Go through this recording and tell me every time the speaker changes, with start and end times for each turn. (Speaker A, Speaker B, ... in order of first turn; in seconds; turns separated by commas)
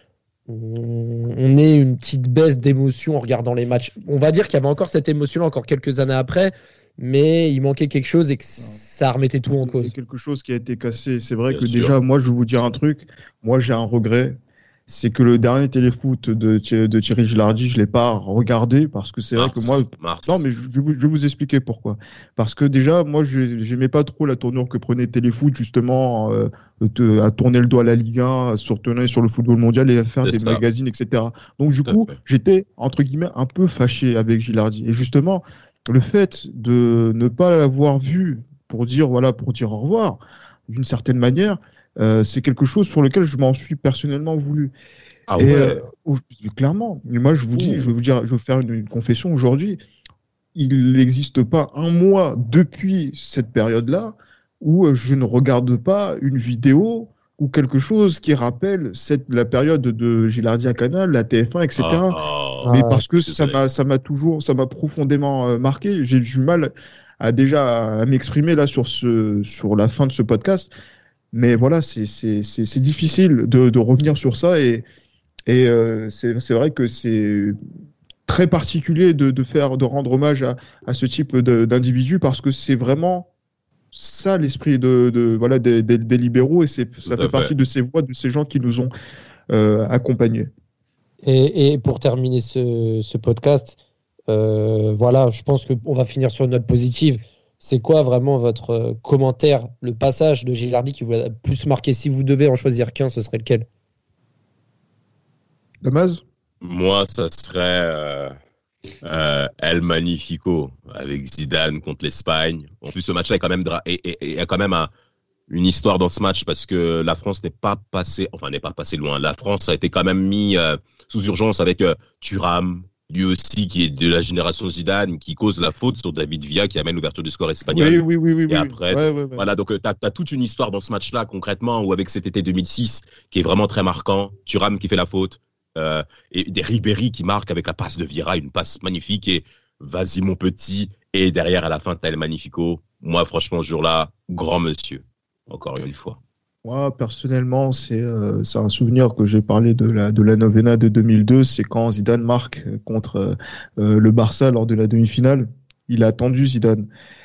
Speaker A: 0.5-9.9, Speaker B: 9.6-14.4, Speaker C: 11.5-11.9, Speaker B: 14.9-44.7, Speaker C: 19.3-20.4, Speaker C: 30.2-30.6, Speaker C: 31.9-32.2, Speaker C: 45.3-45.8, Speaker B: 45.4-49.8, Speaker C: 47.5-47.9, Speaker B: 50.5-70.7, Speaker C: 61.8-63.6, Speaker A: 62.6-63.0, Speaker B: 71.3-74.9, Speaker B: 75.5-77.6, Speaker B: 78.3-83.3, Speaker B: 83.9-88.9, Speaker C: 87.0-87.5, Speaker B: 89.5-90.5, Speaker A: 91.2-93.8, Speaker A: 94.3-103.7, Speaker B: 105.8-106.2, Speaker C: 106.6-108.3, Speaker C: 109.0-114.9, Speaker C: 115.5-146.2, Speaker B: 127.7-129.5, Speaker B: 146.6-156.9